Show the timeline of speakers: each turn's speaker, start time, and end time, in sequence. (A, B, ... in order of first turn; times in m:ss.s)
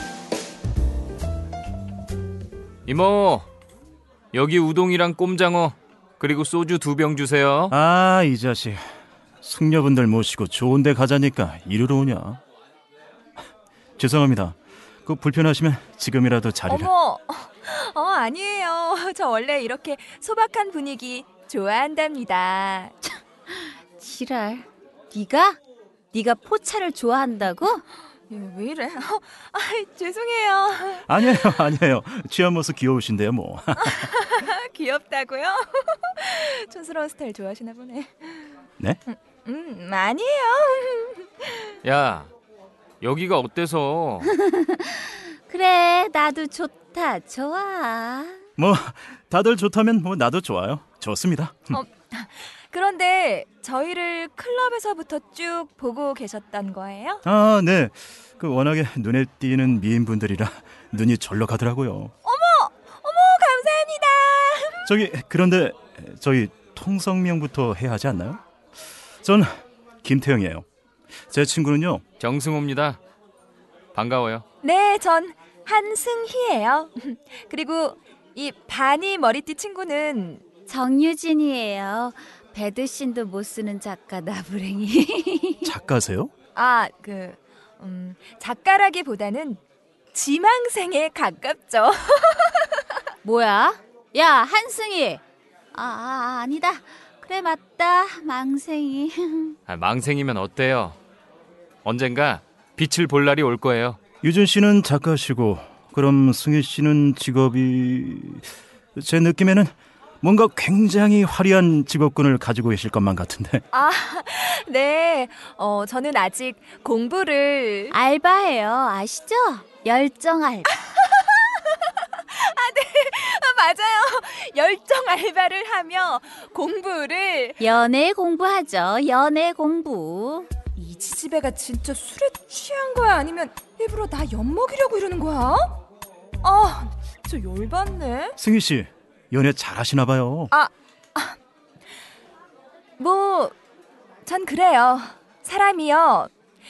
0:02.8-0:03.5 A
0:04.3-0:07.7 A
0:07.7-0:08.8 B
0:09.4-0:12.4 B
0:14.0-0:16.9 B
0:16.7-0:22.9 C
0:23.5-0:25.6 D
0:26.1-0:27.8 D
0:28.3-0:31.6 C
0:31.0-0:34.0 B
0:33.8-0:38.5 C
0:39.1-0:41.7 C
0:41.8-0:42.3 A
0:43.0-0:44.4 A
0:44.3-0:48.4 D
0:48.6-0:51.8 B
0:51.7-0:57.2 C
0:57.2-1:02.1 B
1:02.2-1:04.8 C
1:04.8-1:08.4 B
1:09.2-1:09.5 B
1:10.0-1:10.6 B
1:11.3-1:12.0 B
1:12.2-1:13.0 A
1:13.9-1:14.4 A
1:14.6-1:20.4 C
1:20.7-1:25.7 D
1:25.6-1:26.3 B
1:26.5-1:29.6 C
1:30.1-1:32.8 C
1:33.2-1:35.2 D
1:35.7-1:39.6 D
1:39.7-1:41.0 A
1:41.8-1:44.0 A
1:44.2-1:53.6 B
1:53.7-1:57.9 C
1:57.9-2:00.7 D
2:00.9-2:07.6 C
2:07.6-2:10.5 D
2:10.8-2:15.8 C
2:16.4-2:18.4 C
2:18.4-2:20.5 B
2:20.5-2:21.4 C
2:23.0-2:23.6 C
2:24.2-2:26.3 C